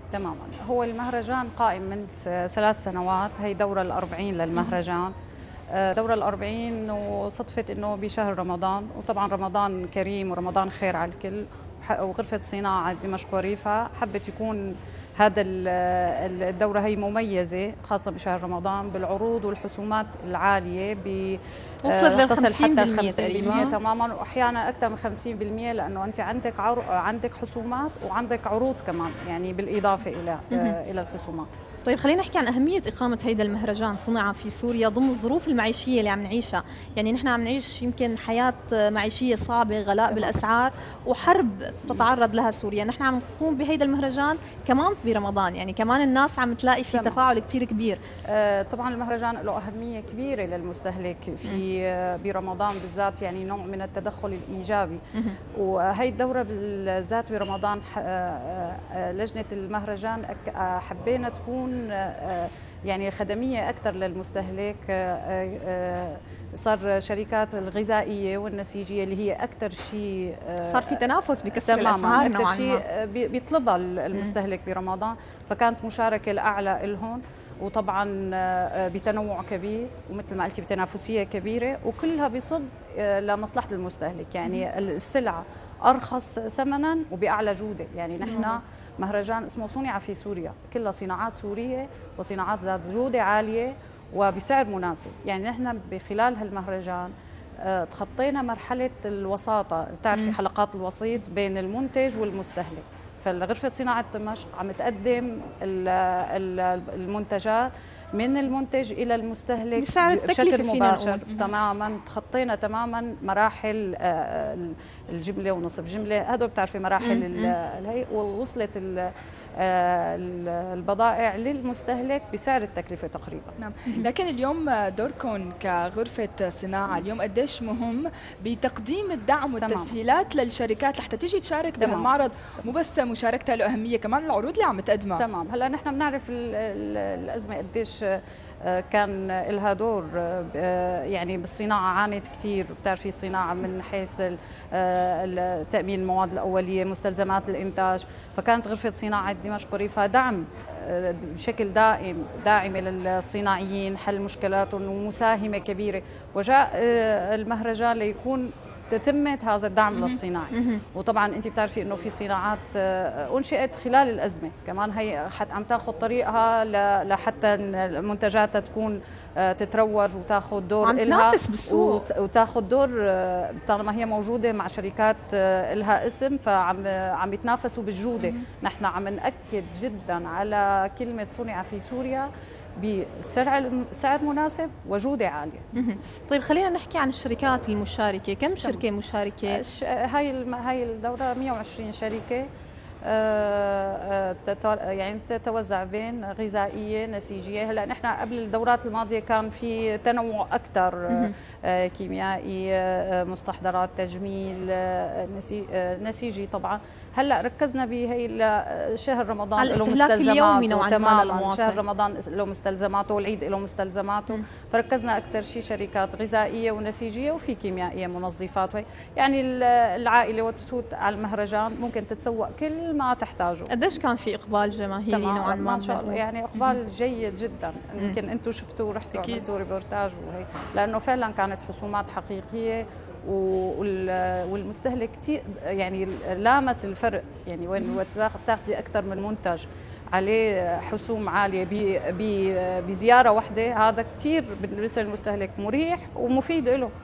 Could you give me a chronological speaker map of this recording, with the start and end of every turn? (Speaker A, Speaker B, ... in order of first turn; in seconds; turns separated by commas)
Speaker A: 0.1-5.1, Speaker A: 5.7-31.5, Speaker B: 21.8-23.8, Speaker B: 30.5-30.8, Speaker B: 31.9-48.0, Speaker A: 40.1-40.4, Speaker A: 46.9-47.2, Speaker A: 48.3-55.0, Speaker A: 55.5-71.0, Speaker B: 70.6-72.8, Speaker A: 71.6-123.5, Speaker B: 88.2-88.5, Speaker B: 109.8-111.2, Speaker C: 111.3-111.5, Speaker B: 117.0-117.5, Speaker C: 123.6-135.2, Speaker A: 129.6-130.0, Speaker A: 131.8-132.1, Speaker A: 135.2-185.7, Speaker C: 159.9-160.2, Speaker B: 160.5-160.8, Speaker B: 170.8-172.0, Speaker B: 185.7-189.6, Speaker A: 189.4-192.5, Speaker A: 193.0-223.7, Speaker B: 209.6-211.8, Speaker B: 223.7-226.2, Speaker A: 225.1-246.9, Speaker C: 226.5-226.8, Speaker C: 229.1-229.4